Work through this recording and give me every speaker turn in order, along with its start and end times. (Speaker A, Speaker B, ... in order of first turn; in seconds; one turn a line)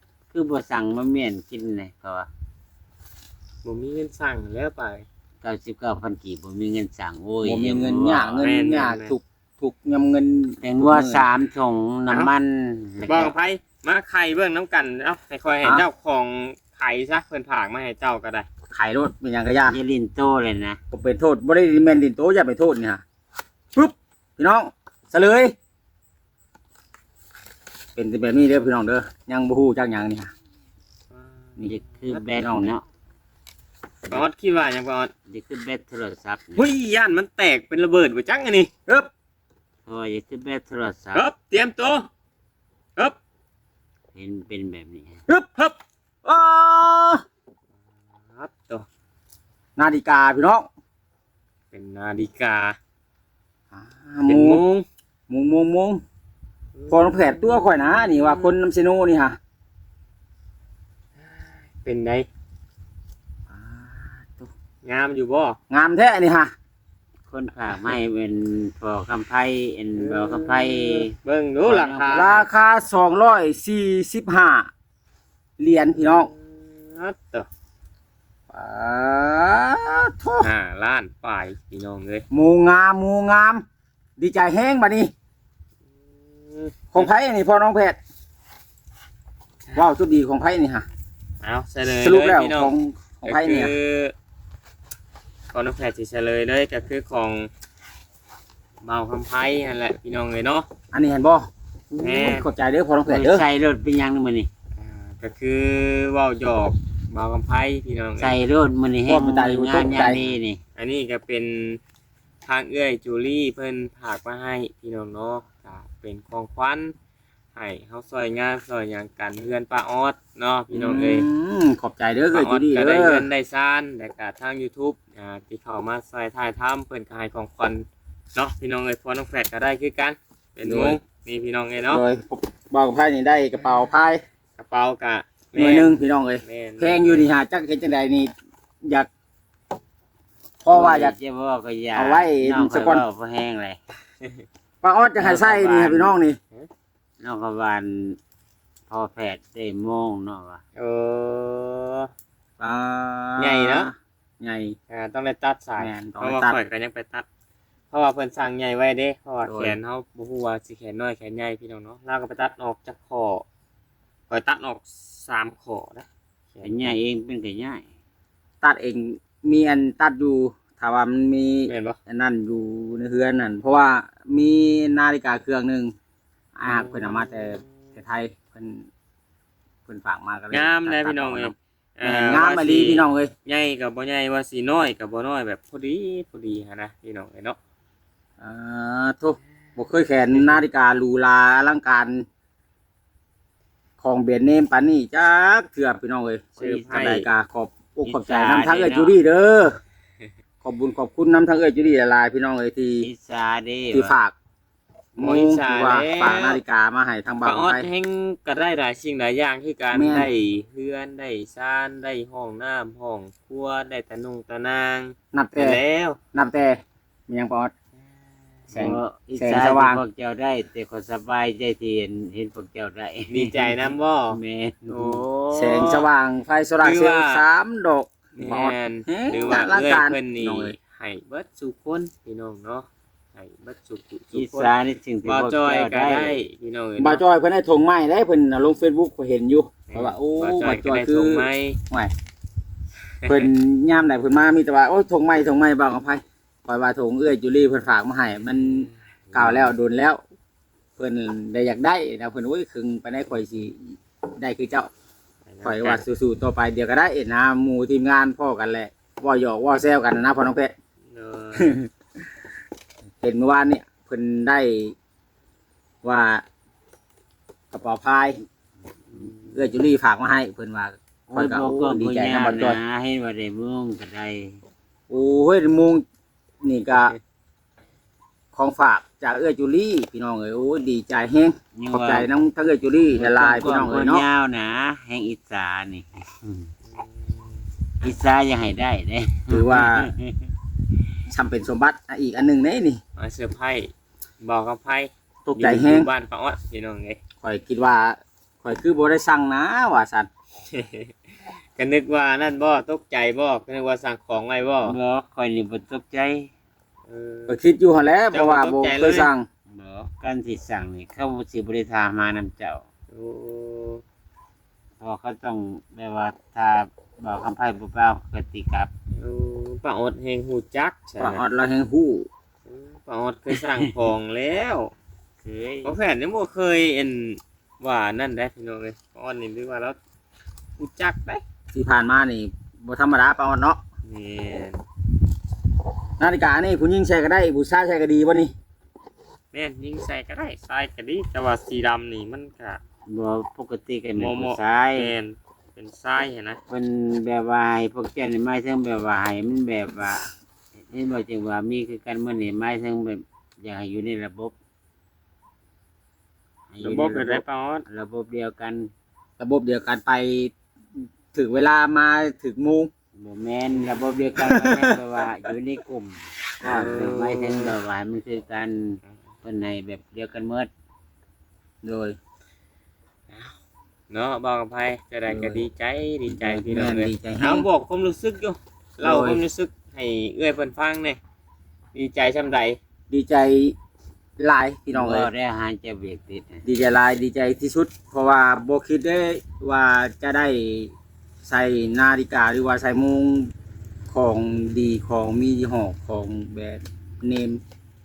Speaker A: 0.3-2.3
Speaker B: 3.6-5.0
Speaker A: 5.4-8.4
Speaker C: 7.4-11.3
Speaker B: 8.4-9.1
Speaker A: 10.6-13.3
Speaker B: 13.0-18.5
Speaker C: 18.7-19.8
Speaker A: 19.6-20.8
Speaker C: 20.9-23.0
Speaker C: 23.7-25.5
Speaker C: 27.9-30.3
Speaker B: 31.1-32.2
Speaker C: 31.6-32.7
Speaker A: 31.6-32.8
Speaker B: 34.0-35.1
Speaker A: 35.3-36.7
Speaker B: 36.5-38.7
Speaker A: 39.9-41.3
Speaker B: 41.1-42.1
Speaker A: 44.1-45.2
Speaker C: 45.3-45.7
Speaker C: 46.2-47.2
Speaker B: 48.3-48.9
Speaker C: 49.8-50.7
Speaker B: 51.7-52.8
Speaker C: 53.7-54.6
Speaker B: 54.3-54.8
Speaker C: 55.3-56.0
Speaker B: 56.7-58.6
Speaker C: 56.9-59.4
Speaker B: 61.3-62.3
Speaker C: 63.5-64.5
Speaker B: 64.8-65.6
Speaker C: 65.7-66.5
Speaker A: 67.3-71.1
Speaker B: 70.0-72.3
Speaker A: 71.6-72.5
Speaker C: 72.1-74.7
Speaker C: 75.6-76.3
Speaker B: 76.0-77.5
Speaker C: 78.5-80.5
Speaker B: 80.4-82.2
Speaker C: 82.3-83.6
Speaker C: 84.2-85.1
Speaker B: 86.4-87.1
Speaker C: 86.9-88.0
Speaker C: 89.7-90.8
Speaker B: 91.4-92.7
Speaker C: 91.8-93.7
Speaker B: 93.2-94.1
Speaker B: 95.5-97.5
Speaker B: 98.8-100.7
Speaker C: 100.9-103.4
Speaker B: 102.0-102.5
Speaker A: 103.0-104.5
Speaker B: 104.8-108.4
Speaker A: 108.2-110.6
Speaker C: 109.1-110.2
Speaker B: 109.9-111.8
Speaker B: 112.4-116.9
Speaker B: 117.5-121.3
Speaker C: 120.7-123.3
Speaker B: 122.3-132.0
Speaker C: 130.6-131.0
Speaker C: 131.9-134.2
Speaker B: 134.6-137.3
Speaker C: 135.5-138.3
Speaker C: 138.8-139.1
Speaker C: 140.6-141.2
Speaker A: 140.7-143.8
Speaker C: 141.9-143.0
Speaker C: 144.8-146.4
Speaker A: 145.2-146.1
Speaker A: 147.2-148.2
Speaker A: 148.9-150.6
Speaker B: 150.8-152.1
Speaker C: 152.6-154.8
Speaker B: 153.4-153.9
Speaker B: 154.9-157.2
Speaker C: 155.8-156.6
Speaker B: 157.9-163.4
Speaker C: 159.4-159.8
Speaker B: 164.3-166.9
Speaker A: 166.6-167.8
Speaker C: 168.6-175.9
Speaker B: 171.7-172.0
Speaker C: 176.5-178.9
Speaker B: 176.6-177.6
Speaker C: 179.9-183.3
Speaker B: 180.5-187.6
Speaker C: 188.4-192.2
Speaker B: 190.3-190.6
Speaker C: 194.0-199.8
Speaker A: 196.6-197.1
Speaker B: 196.6-197.3
Speaker A: 198.1-199.1
Speaker C: 200.6-203.1
Speaker A: 203.0-204.2
Speaker C: 203.9-204.3
Speaker B: 205.2-206.6
Speaker C: 205.2-207.9
Speaker B: 207.4-216.2
Speaker C: 209.9-210.3
Speaker C: 215.3-215.8
Speaker C: 216.3-217.7
Speaker C: 218.7-220.0
Speaker A: 218.7-225.2
Speaker B: 223.3-226.1
Speaker C: 225.5-230.8
Speaker B: 226.8-227.4
Speaker B: 228.3-234.7
Speaker A: 234.3-236.5
Speaker B: 235.2-237.2
Speaker C: 237.0-242.1
Speaker B: 239.9-241.8
Speaker B: 243.2-243.5
Speaker C: 243.3-250.2
Speaker B: 248.6-249.7
Speaker C: 251.0-254.9
Speaker B: 255.4-256.0
Speaker C: 255.6-260.7
Speaker B: 261.1-261.8
Speaker C: 261.6-261.9
Speaker C: 263.2-264.9
Speaker C: 266.0-266.4
Speaker C: 267.7-268.4
Speaker C: 269.5-272.8
Speaker A: 271.3-274.6
Speaker C: 275.1-276.0
Speaker C: 276.6-277.1
Speaker C: 278.5-284.2
Speaker A: 281.7-282.3
Speaker A: 283.1-286.7
Speaker B: 286.9-287.3
Speaker A: 288.0-290.5
Speaker C: 289.5-290.1
Speaker C: 291.3-293.0
Speaker B: 293.1-297.2
Speaker C: 295.5-296.1
Speaker C: 297.4-300.3
Speaker B: 300.7-304.9
Speaker A: 304.8-306.5
Speaker B: 307.1-307.6
Speaker C: 307.5-309.4
Speaker B: 308.3-309.3
Speaker A: 309.7-312.8
Speaker B: 313.1-314.0
Speaker A: 315.0-318.9
Speaker B: 319.1-321.4
Speaker C: 321.2-322.3
Speaker B: 322.7-324.9
Speaker A: 325.4-325.9
Speaker B: 325.8-330.0
Speaker B: 330.8-331.4
Speaker C: 331.7-333.8
Speaker B: 334.1-334.8
Speaker C: 336.2-338.5
Speaker B: 339.5-342.8
Speaker A: 343.1-345.1
Speaker B: 344.1-346.6
Speaker A: 346.7-350.3
Speaker A: 350.9-354.5
Speaker A: 356.7-358.9
Speaker B: 356.8-357.8
Speaker C: 359.4-360.5
Speaker C: 361.3-362.9
Speaker A: 363.2-370.7
Speaker C: 364.4-365.0
Speaker B: 366.6-367.8
Speaker C: 371.8-372.2
Speaker B: 374.1-381.2
Speaker C: 375.3-375.7
Speaker A: 376.3-376.6
Speaker C: 376.5-377.7
Speaker C: 379.0-379.4
Speaker B: 381.9-382.8
Speaker C: 383.1-383.7
Speaker C: 384.4-385.3
Speaker A: 384.9-386.6
Speaker C: 386.6-390.9
Speaker C: 391.4-393.5
Speaker C: 394.1-397.6